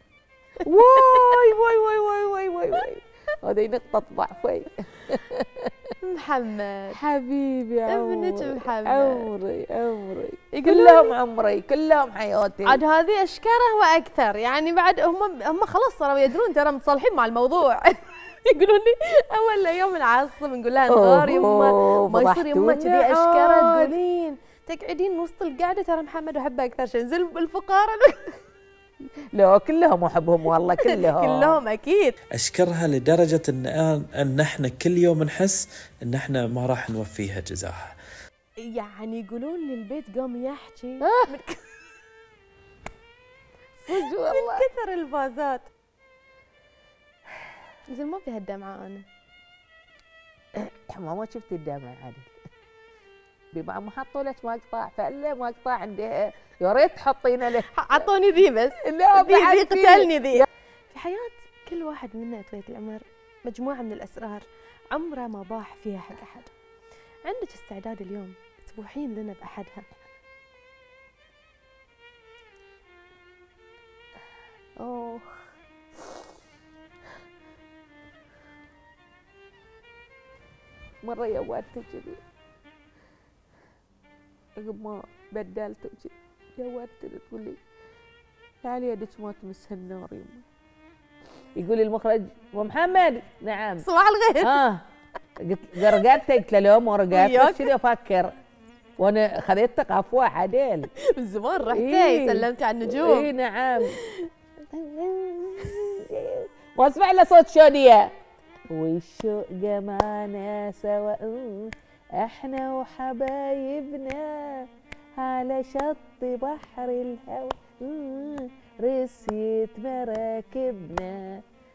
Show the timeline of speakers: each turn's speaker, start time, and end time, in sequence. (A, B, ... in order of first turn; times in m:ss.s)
0:00.6-0:05.9 A
0:06.0-0:07.0 B
0:07.0-0:12.8 A
0:07.9-0:09.3 B
0:10.5-0:11.2 B
0:12.6-0:28.4 B
0:20.9-0:23.9 A
0:29.3-0:31.6 A
0:30.8-0:32.2 B
0:32.4-0:38.0 C
0:38.6-0:41.6 B
0:41.0-0:41.3 A
0:43.8-0:44.7 A
0:43.9-0:45.7 B
0:47.9-0:49.0 B
0:50.5-0:52.4 A
0:53.5-0:58.1 A
0:57.7-1:06.5 B
0:58.8-1:00.5 A
1:07.2-1:09.8 B
1:14.8-1:15.5 A
1:21.0-1:22.2 A
1:24.6-1:27.6 A
1:28.6-1:30.4 A
1:31.6-1:33.8 A
1:33.8-1:34.6 B
1:34.4-1:34.8 A
1:35.4-1:38.3 A
1:37.1-1:37.7 B
1:39.0-1:40.9 A
1:41.1-1:43.3 B
1:41.6-1:44.0 A
1:43.8-1:44.1 B
1:44.7-1:48.1 A
1:48.7-2:01.4 A